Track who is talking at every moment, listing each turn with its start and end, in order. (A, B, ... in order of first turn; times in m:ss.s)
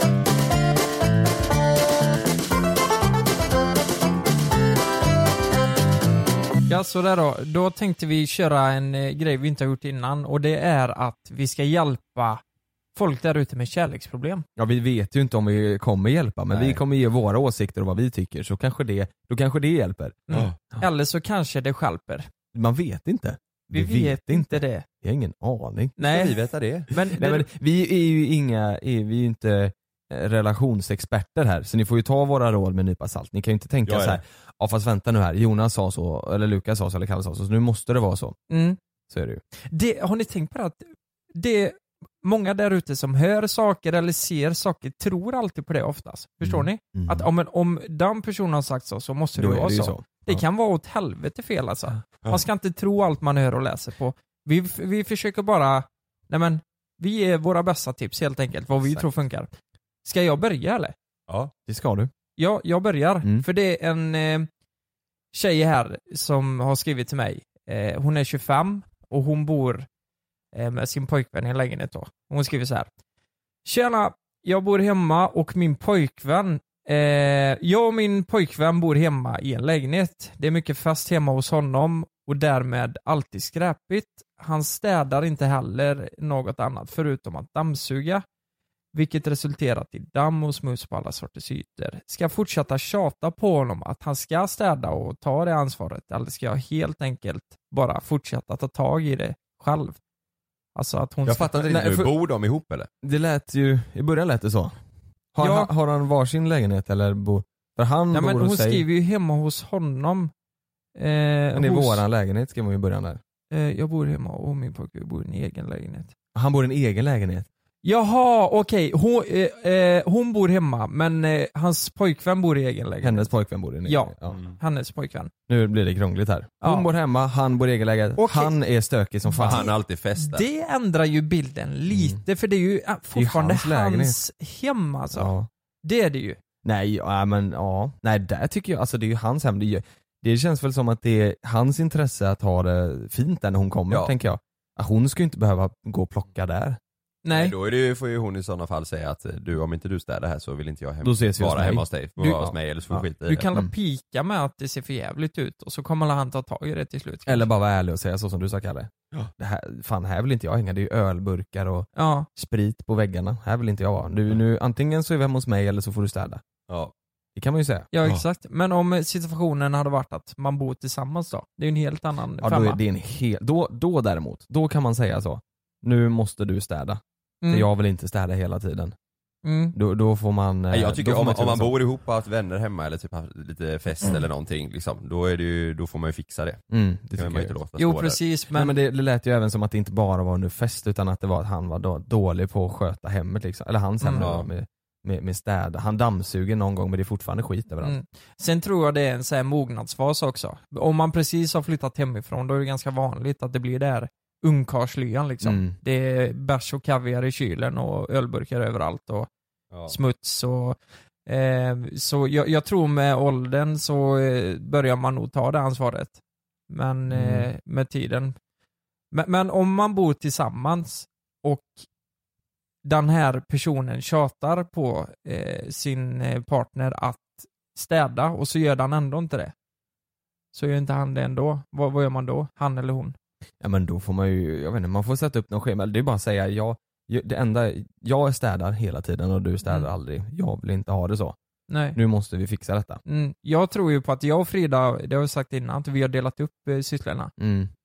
0:06.7-0:12.4 A
0:12.9-0:14.4 A
0:14.6-0:20.8 B
0:16.5-0:16.8 C
0:20.3-0:22.3 A
0:22.5-0:25.9 B
0:23.7-0:24.8 A
0:26.0-0:26.4 A
0:26.0-0:26.9 C
0:26.9-0:27.5 A
0:27.1-0:38.4 B
0:33.8-0:34.2 C
0:38.5-0:38.8 A
0:39.1-0:39.4 B
0:39.7-0:59.5 A
0:46.4-0:47.3 B
0:49.4-0:50.4 B
1:00.0-1:00.9 A
1:01.6-1:02.1 B
1:02.4-1:04.5 A
1:05.3-1:09.8 A
1:10.5-1:12.9 A
1:13.6-1:28.2 A
1:28.9-1:40.0 A
1:40.7-1:41.6 A
1:41.2-1:42.9 C
1:41.5-1:42.2 B
1:43.0-1:44.7 B
1:45.3-1:48.8 B
1:45.4-1:45.7 A
1:48.1-1:50.3 A
1:51.0-1:52.0 A
1:51.5-1:53.2 B
1:53.5-1:56.1 A
1:56.3-1:57.5 B
1:57.8-2:03.3 A
2:03.0-2:04.4 B
2:03.8-2:05.3 A
2:04.3-2:04.6 C
2:05.5-2:09.7 B
2:06.6-2:06.9 A
2:08.2-2:08.6 A
2:09.3-2:15.3 A
2:09.4-2:10.4 C
2:11.9-2:12.2 B
2:13.1-2:14.2 B
2:15.1-2:15.5 B
2:15.8-2:16.4 A
2:16.6-2:26.8 B
2:27.2-2:27.5 A
2:27.3-2:33.5 C
2:31.0-2:33.7 B
2:33.2-2:37.5 A
2:37.2-2:46.4 B
2:42.0-2:42.3 A
2:47.4-2:47.9 B
2:47.9-2:52.8 A
2:52.4-2:58.9 B
2:57.4-2:57.7 A
2:59.4-2:59.8 A
2:59.7-3:01.7 B
3:00.7-3:06.6 C
3:06.7-3:07.5 B
3:07.2-3:08.2 C
3:07.8-3:08.7 A
3:08.5-3:18.0 B
3:14.0-3:14.3 A
3:14.2-3:14.5 C
3:17.8-3:29.3 A
3:25.4-3:25.7 B
3:29.9-3:36.2 A
3:36.7-3:38.3 A
3:37.1-3:37.5 B
3:39.1-3:41.8 A
3:42.8-3:49.5 A
3:50.5-3:53.1 A
3:53.6-4:01.4 B
4:01.7-4:02.0 A
4:01.9-4:03.0 B
4:03.0-4:07.3 A
4:07.4-4:07.7 B